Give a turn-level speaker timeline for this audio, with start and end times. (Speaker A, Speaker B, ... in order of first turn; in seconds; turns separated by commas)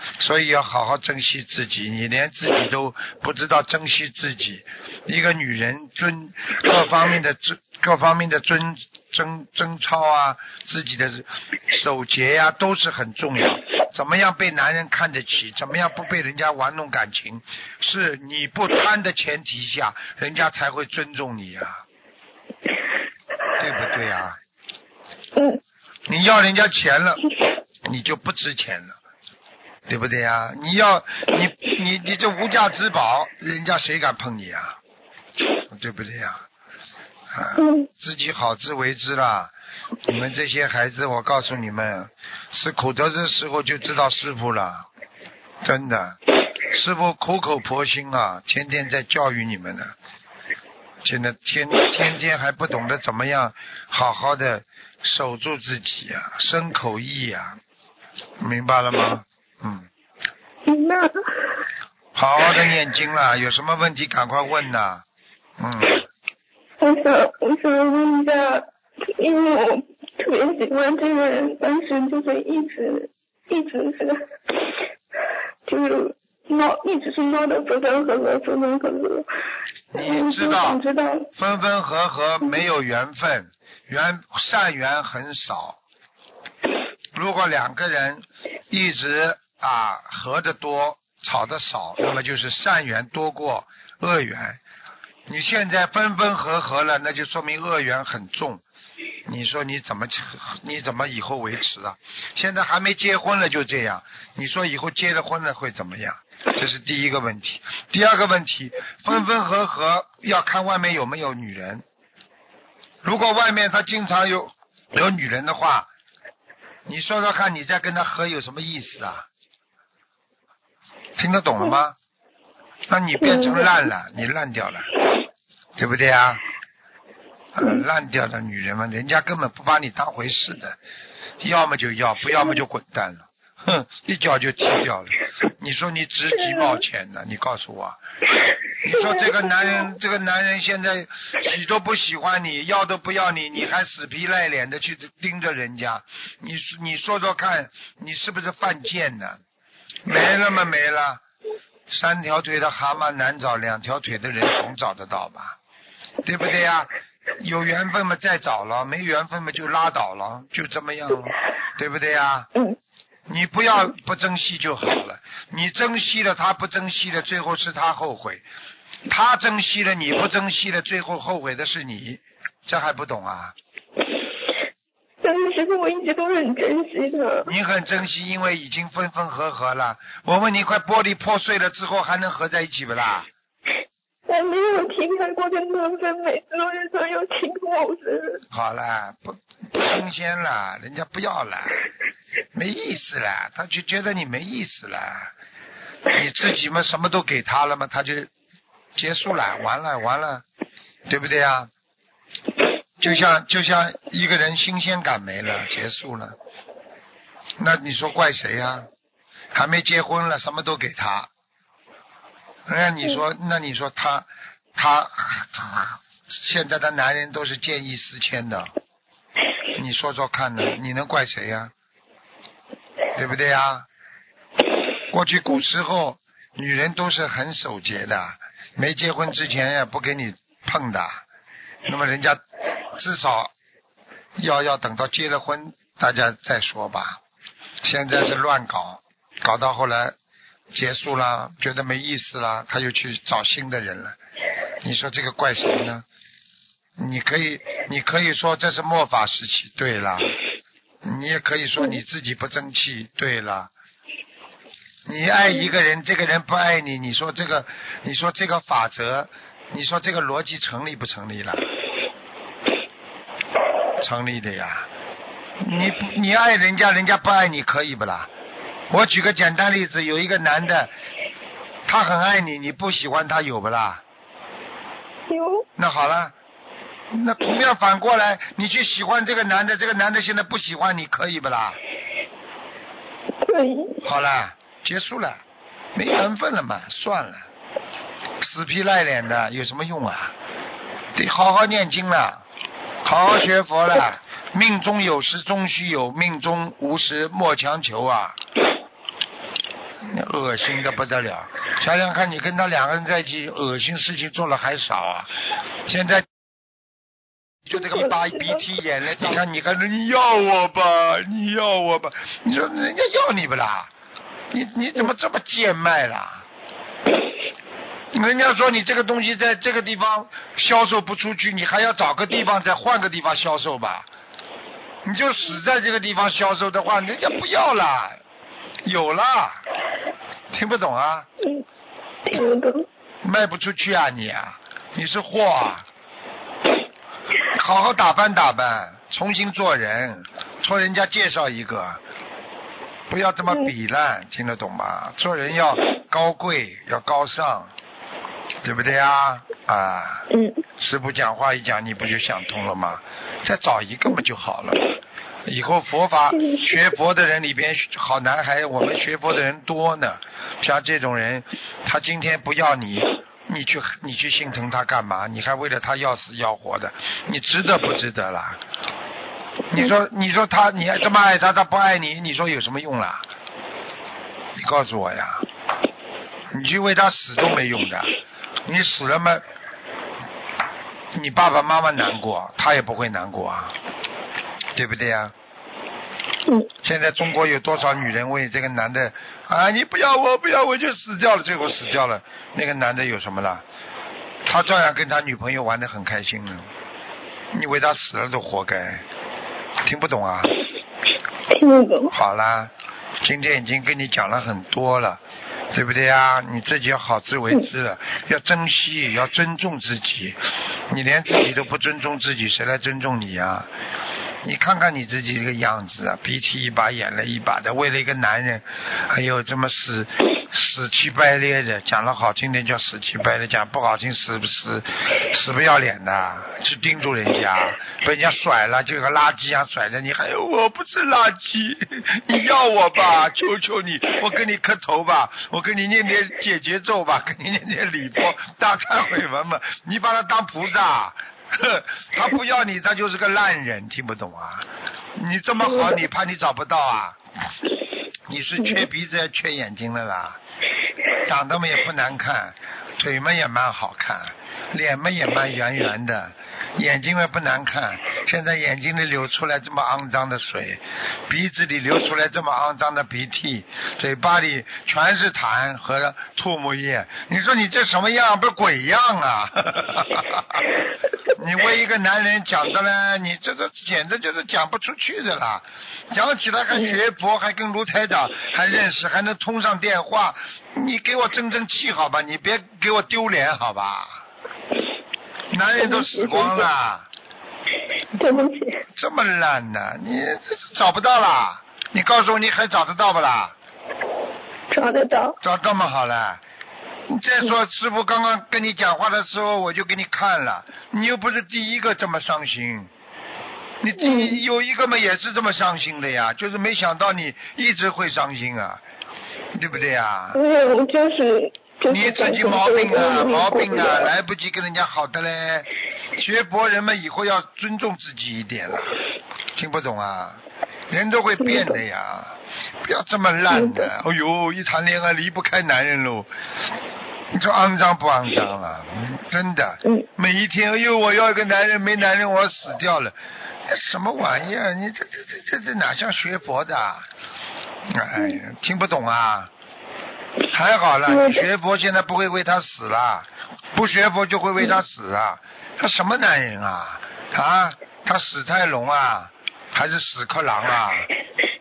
Speaker A: 0.2-21.8, Speaker A: 23.6-24.4, Speaker A: 26.1-27.2, Speaker A: 27.8-29.0, Speaker A: 29.9-34.8, Speaker A: 35.7-36.4, Speaker A: 37.3-39.5, Speaker B: 37.6-37.9, Speaker A: 40.0-44.9, Speaker A: 45.6-46.2, Speaker A: 46.7-49.9, Speaker A: 51.0-57.6, Speaker A: 58.4-59.9, Speaker B: 60.6-61.5, Speaker A: 62.1-65.0, Speaker A: 65.6-66.1, Speaker B: 66.8-74.7, Speaker B: 75.7-79.3, Speaker A: 79.9-80.8, Speaker B: 79.9-81.3, Speaker A: 81.3-85.8, Speaker A: 87.1-94.6, Speaker A: 95.3-98.6, Speaker A: 99.3-111.8, Speaker A: 113.0-115.9, Speaker A: 116.9-119.2, Speaker A: 121.2-122.0, Speaker A: 122.9-124.9, Speaker B: 123.2-123.9, Speaker A: 125.8-126.4, Speaker A: 127.5-130.8, Speaker A: 131.4-138.0, Speaker A: 138.8-149.4, Speaker B: 138.9-139.9, Speaker A: 150.0-151.2, Speaker A: 151.9-155.6, Speaker A: 156.2-162.5, Speaker A: 163.3-168.4, Speaker A: 169.1-173.5, Speaker B: 175.2-177.5, Speaker A: 177.4-183.3, Speaker B: 184.3-188.4, Speaker A: 188.5-191.8, Speaker A: 192.5-195.3, Speaker A: 196.1-198.3, Speaker A: 198.9-200.4, Speaker A: 201.1-201.7, Speaker A: 203.0-206.3, Speaker A: 207.6-208.9, Speaker A: 209.5-211.3, Speaker A: 212.7-218.7, Speaker A: 219.7-221.7, Speaker A: 223.1-223.9, Speaker A: 225.1-231.2, Speaker A: 231.8-232.4, Speaker A: 232.9-233.5, Speaker A: 234.4-237.2, Speaker A: 237.8-240.2, Speaker A: 240.7-244.2, Speaker A: 244.8-246.0, Speaker A: 247.0-250.3, Speaker A: 251.0-253.7, Speaker A: 255.1-261.7, Speaker A: 264.0-264.9, Speaker A: 265.6-268.3, Speaker A: 268.9-270.9, Speaker A: 271.9-274.0, Speaker B: 275.3-275.6, Speaker A: 275.8-276.3, Speaker A: 277.1-281.8, Speaker B: 283.4-284.0, Speaker A: 284.0-285.4, Speaker A: 285.9-287.4, Speaker A: 288.4-290.3, Speaker A: 291.1-292.4, Speaker A: 293.0-298.4, Speaker A: 300.0-305.3, Speaker A: 305.9-306.3, Speaker A: 307.6-313.9, Speaker A: 314.5-316.4, Speaker A: 318.1-324.1, Speaker A: 325.0-328.2, Speaker A: 328.8-329.6, Speaker A: 330.5-331.3, Speaker B: 332.2-332.9, Speaker A: 333.2-335.9, Speaker A: 337.5-342.0, Speaker A: 343.1-347.7, Speaker A: 348.6-350.3, Speaker B: 350.3-350.6, Speaker A: 350.8-354.9, Speaker A: 355.4-368.6, Speaker B: 356.3-356.7, Speaker A: 369.7-373.2, Speaker A: 374.6-375.4, Speaker A: 376.5-378.1, Speaker A: 378.6-379.4, Speaker A: 381.1-383.7, Speaker A: 384.7-385.3, Speaker A: 386.8-393.6, Speaker A: 394.4-396.7, Speaker A: 397.5-399.0, Speaker A: 399.8-400.5, Speaker B: 401.5-402.1, Speaker A: 402.1-405.2, Speaker A: 405.7-413.7, Speaker A: 414.4-447.2, Speaker A: 448.3-450.4, Speaker A: 451.2-470.8, Speaker A: 471.3-484.2, Speaker A: 485.5-487.1, Speaker B: 485.8-486.7, Speaker B: 488.1-488.8, Speaker A: 488.9-493.6, Speaker B: 494.7-495.4, Speaker A: 495.4-496.4, Speaker A: 497.1-502.9, Speaker A: 503.8-508.8, Speaker B: 504.0-504.4, Speaker A: 509.5-510.4, Speaker B: 510.3-514.1, Speaker A: 511.9-518.9, Speaker A: 519.5-526.3, Speaker B: 521.5-521.7, Speaker B: 523.5-523.9, Speaker A: 527.3-537.1, Speaker A: 537.9-539.5, Speaker A: 540.5-551.1, Speaker B: 541.1-541.4